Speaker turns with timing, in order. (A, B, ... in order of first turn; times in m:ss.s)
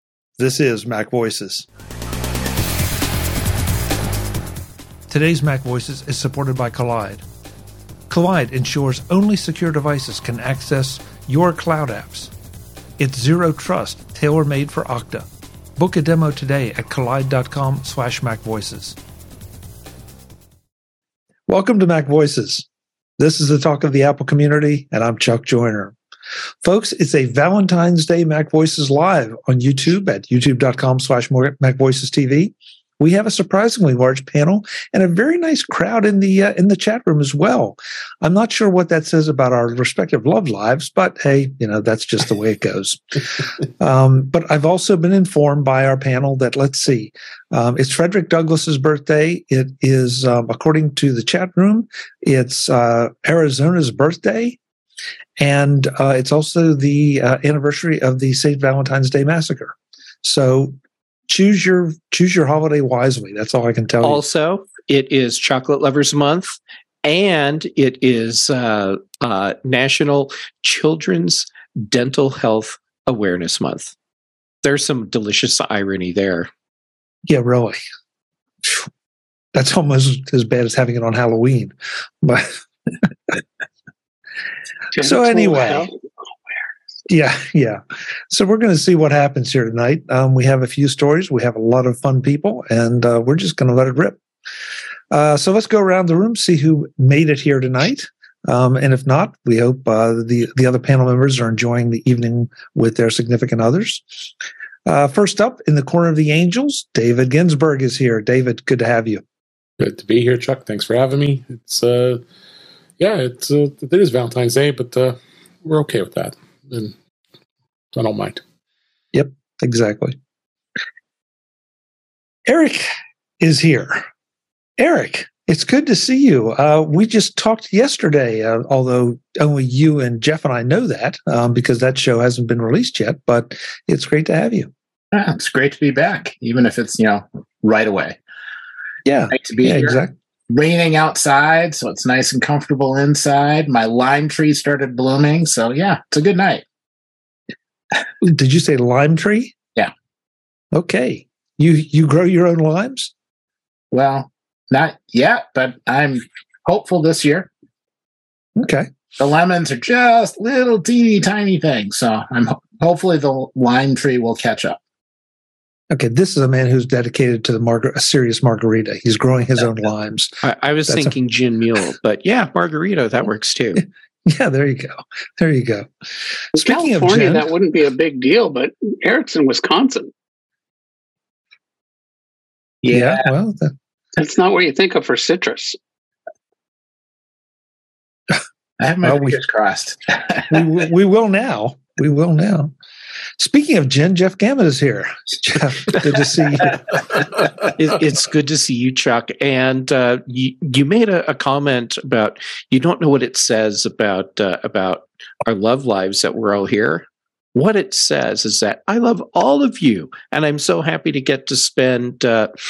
0:00.4-0:01.7 A
0:05.1-0:07.2 A
0:08.1-0:12.3 A
0:13.0-0:19.0 A
0:21.5-0:22.7 A
0:23.2-0:26.0 A
0:26.6-0:54.6 A
0:55.4-1:00.8 A
1:01.3-1:04.2 A
1:04.0-1:13.9 B
1:14.6-1:16.5 B
1:17.3-1:17.8 A
1:19.5-1:22.6 A
1:24.9-1:26.0 C
1:25.0-1:25.9 A
1:27.1-1:34.2 A
1:35.1-1:44.0 A
1:44.9-1:49.2 A
1:49.8-1:52.2 D
1:53.0-1:57.0 D
1:58.0-1:58.4 D
1:59.1-2:00.2 A
2:02.5-2:02.9 A
2:03.4-2:04.1 A
2:04.8-2:14.7 A
2:15.1-2:18.2 E
2:19.1-2:20.2 A
2:19.3-2:26.6 E
2:28.2-2:29.5 A
2:30.7-2:33.1 A
2:33.9-2:37.5 E
2:38.6-2:38.9 A
2:39.2-2:44.8 E
2:45.9-2:51.2 A
2:50.4-2:53.8 B
2:53.8-2:55.9 A
2:56.5-2:57.5 A
2:56.6-3:00.1 C
3:02.8-3:03.3 E
3:02.9-3:03.7 A
3:04.2-3:05.8 C
3:08.8-3:10.5 E
3:09.0-3:09.4 A
3:10.5-3:12.7 A
3:13.4-3:16.8 A
3:17.8-3:32.5 B